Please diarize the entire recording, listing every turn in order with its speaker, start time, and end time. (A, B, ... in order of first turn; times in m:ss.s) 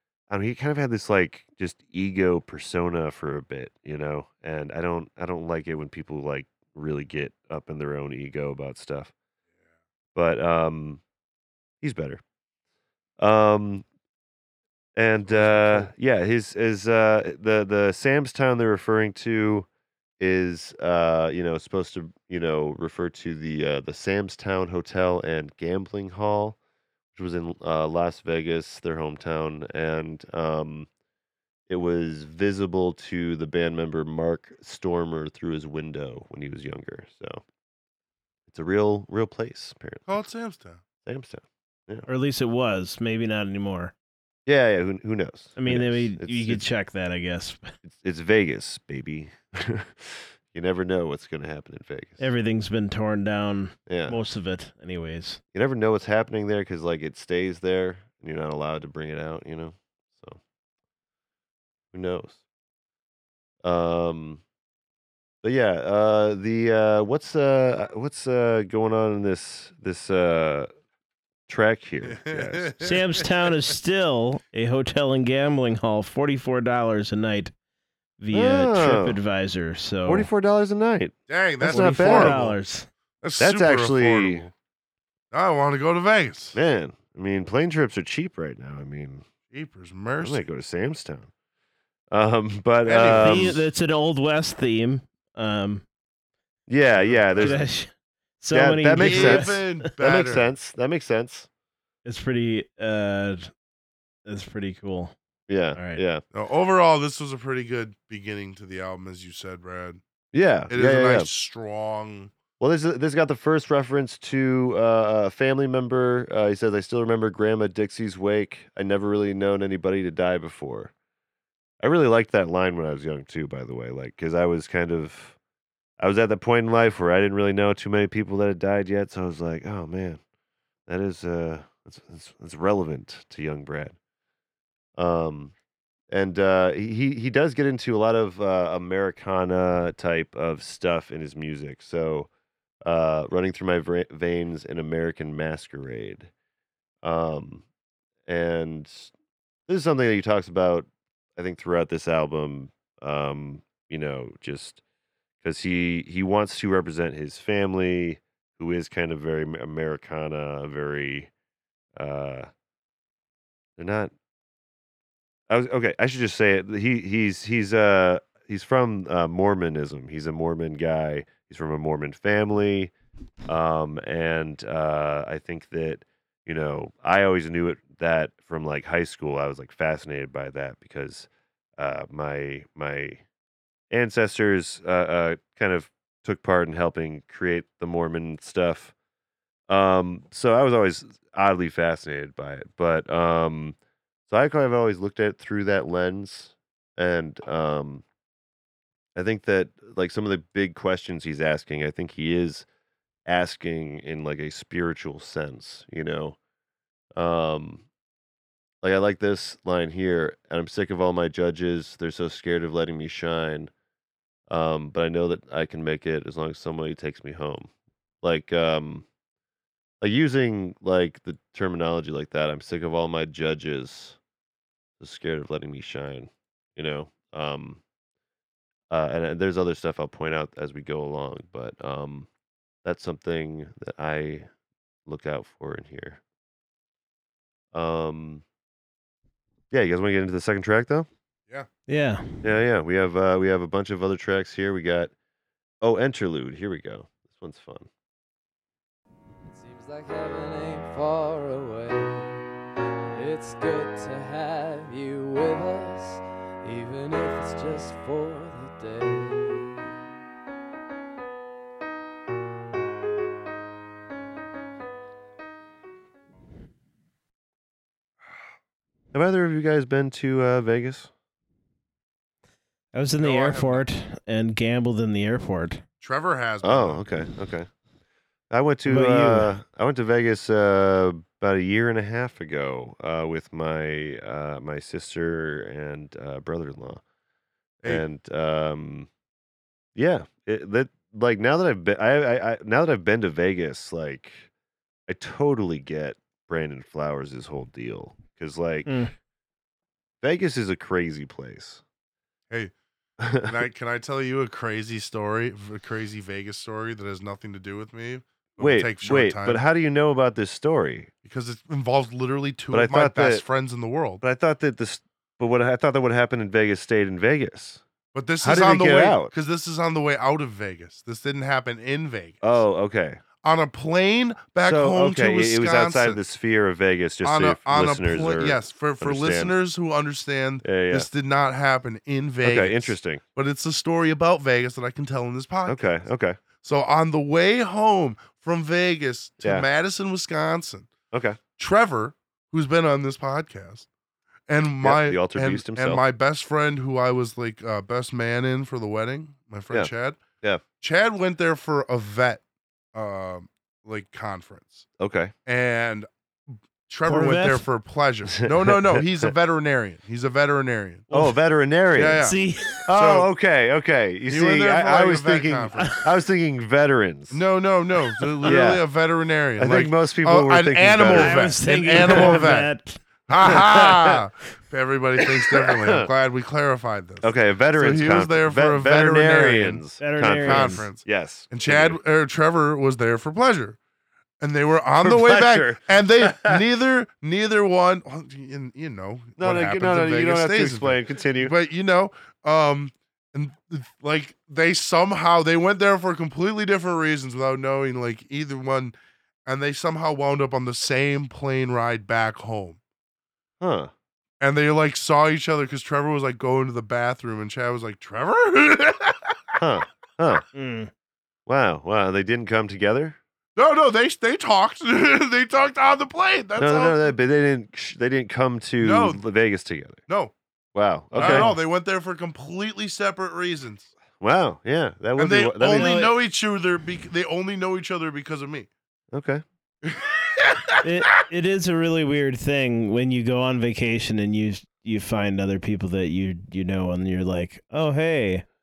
0:00.3-0:09.1 A
0:10.2-0:11.0 A
0:11.8-0:12.2 A
0:13.2-0:13.9 A
0:15.0-0:19.7 A
0:15.3-0:15.9 B
0:20.2-0:26.6 A
0:27.1-0:30.9 A
0:31.7-0:37.4 A
0:38.5-0:40.2 A
0:40.1-0:40.8 B
0:41.0-0:42.1 A
0:42.1-0:43.9 C
0:44.5-0:46.6 A
0:45.6-0:47.8 C
0:47.8-0:52.3 A
0:52.2-0:55.4 C
0:53.9-0:54.2 A
0:55.5-1:00.4 A
1:01.9-1:02.4 A
1:03.6-1:04.4 A
1:05.4-1:10.7 A
1:11.5-1:12.7 A
1:12.0-1:13.3 B
1:12.8-1:17.5 C
1:18.2-1:20.3 C
1:18.3-1:19.2 A
1:20.1-1:22.6 A
1:21.3-1:22.4 B
1:21.7-1:22.9 C
1:23.2-1:24.5 B
1:23.4-1:24.4 A
1:25.3-1:26.6 B
1:26.5-1:29.3 A
1:29.5-1:30.4 B
1:30.2-1:31.3 A
1:32.1-1:33.6 A
1:32.8-1:33.6 B
1:33.1-1:35.8 C
1:36.7-1:37.7 A
1:36.9-1:37.6 B
1:37.4-1:39.7 C
1:38.5-1:41.5 A
1:39.0-1:40.5 B
1:42.0-1:43.5 C
1:44.3-1:45.2 C
1:45.5-1:46.2 A
1:45.7-1:46.0 C
1:46.3-1:50.0 B
1:50.3-1:51.3 A
1:50.7-1:52.3 B
1:52.6-2:00.9 A
2:01.8-2:05.4 A
2:06.0-2:10.2 A
2:10.9-2:14.0 A
2:15.0-2:15.5 A
2:16.1-2:22.3 A
2:22.8-2:26.3 A
2:27.0-2:27.6 A
2:28.3-2:29.1 A
2:29.7-2:34.8 A
2:35.4-2:41.3 A
2:42.0-2:42.5 A
2:43.8-2:44.1 A
2:45.5-2:52.9 A
2:53.5-3:03.2 A
3:03.9-3:08.9 A
3:09.7-3:13.8 A
3:14.3-3:18.0 A
3:19.2-3:22.7 A
3:23.3-3:26.4 A
3:27.2-3:27.8 A
3:28.8-3:33.7 A
3:34.5-3:37.7 A
3:38.2-3:39.1 A
3:40.0-3:44.2 A
3:45.0-3:47.8 A
3:48.9-3:52.3 A
3:52.8-3:54.5 A
3:55.1-3:56.2 A
3:57.7-3:58.4 A
3:59.7-4:01.1 A
4:01.9-4:02.4 C
4:02.4-4:05.1 A
4:05.8-4:07.9 A
4:09.5-4:12.4 D
4:13.1-4:19.9 D
4:29.1-4:31.1 A
4:32.9-4:35.8 C
4:33.2-4:33.9 B
4:36.0-4:37.0 B
4:36.6-4:37.7 A
4:38.5-4:47.0 A
4:38.9-4:39.5 C
4:47.9-4:49.1 A
4:50.0-4:54.5 A
4:55.1-4:59.0 A
4:58.9-4:59.1 C
5:00.2-5:01.8 A
5:03.2-5:03.5 A
5:03.4-5:09.6 B
5:08.6-5:11.1 A
5:11.2-5:14.2 B
5:12.7-5:13.4 A
5:14.2-5:17.8 A
5:18.1-5:22.6 B
5:18.4-5:19.3 A
5:22.4-5:23.2 A
5:23.4-5:26.2 B
5:24.6-5:29.5 A
5:27.2-5:36.0 B
5:30.6-5:31.1 A
5:32.4-5:33.2 A
5:35.7-5:36.4 A
5:36.6-5:40.9 B
5:39.4-5:39.7 A
5:41.1-5:41.4 A
5:41.6-5:43.9 B
5:44.5-5:50.2 B
5:44.8-5:46.0 A
5:50.8-5:52.4 B
5:52.9-5:54.9 B
5:55.0-5:55.3 A
5:55.5-6:01.1 B
5:57.1-5:57.6 C
5:58.4-5:59.3 A
6:01.1-6:01.4 C
6:01.1-6:02.3 A
6:02.0-6:03.3 B
6:02.1-6:02.9 C
6:02.9-6:07.4 A
6:04.3-6:06.0 B
6:07.3-6:12.7 B
6:08.4-6:08.8 A
6:09.6-6:11.5 A
6:11.1-6:13.6 C
6:12.0-6:12.4 A
6:13.3-6:19.8 B
6:13.4-6:14.2 A
6:15.4-6:16.1 A
6:17.2-6:22.0 A
6:20.0-6:20.9 C
6:20.4-6:23.8 B
6:24.4-6:38.9 B
6:25.0-6:26.6 A
6:29.4-6:31.5 A
6:39.5-6:42.8 B
6:43.6-6:43.9 A
6:44.4-6:49.6 B
6:49.6-6:50.4 A
6:50.5-6:50.9 C
6:51.5-6:53.2 A
6:53.6-6:57.1 B
6:56.6-7:00.0 A
6:58.8-6:59.2 B
7:00.1-7:00.3 B
7:00.8-7:01.5 A
7:01.1-7:03.9 B
7:01.2-7:01.6 C
7:04.2-7:06.0 A
7:05.2-7:08.7 B
7:05.8-7:06.1 C
7:09.1-7:09.4 A
7:09.8-7:10.8 B
7:10.8-7:18.5 C